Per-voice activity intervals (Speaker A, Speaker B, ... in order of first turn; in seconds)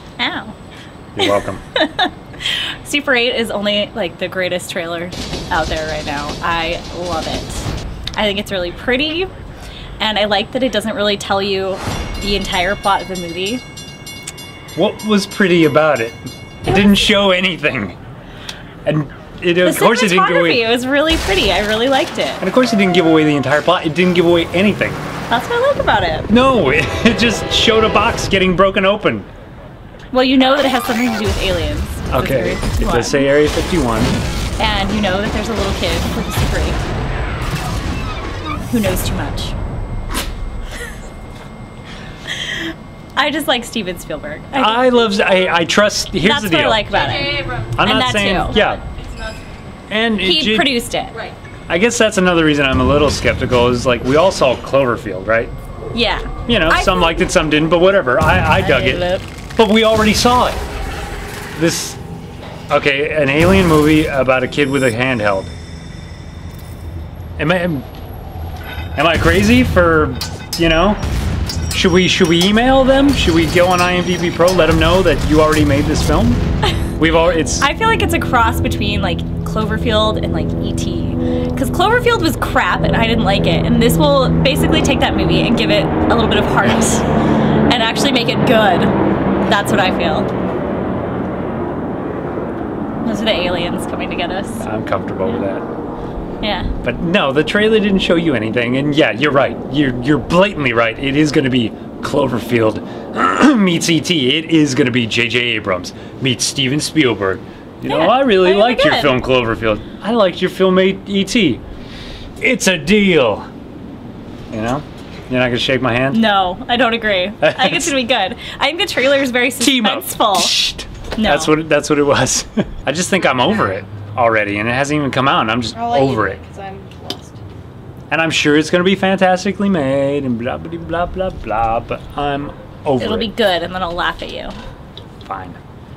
Speaker A: 0.2-0.5, 1.2-9.3, 10.0-13.6, 16.7-17.1, 19.6-22.4, 25.3-26.3, 30.1-33.3, 34.6-36.8, 38.6-39.5, 42.4-42.6, 43.1-45.3, 46.1-48.6, 50.2-51.3, 55.9-57.2, 58.5-59.2, 77.6-87.1, 87.7-90.3, 93.0-94.7, 96.4-96.7, 107.8-109.2, 116.1-120.5, 121.2-121.5, 133.0-134.6
Speaker B: 1.1-1.6, 14.8-18.0, 18.8-20.7, 22.4-25.0, 26.3-29.3, 32.1-34.2, 44.5-46.9, 47.8-48.8, 49.9-50.8, 51.7-55.5, 56.5-59.0, 59.6-60.6, 61.5-62.0, 62.7-65.5, 67.4-67.8, 69.0-71.0, 71.7-76.4, 77.0-77.7, 94.6-95.6, 96.8-111.6, 112.4-113.5, 114.5-116.2, 117.4-117.9, 119.6-126.4, 128.1-133.3, 135.2-135.6
Speaker C: 47.3-47.7, 125.7-127.4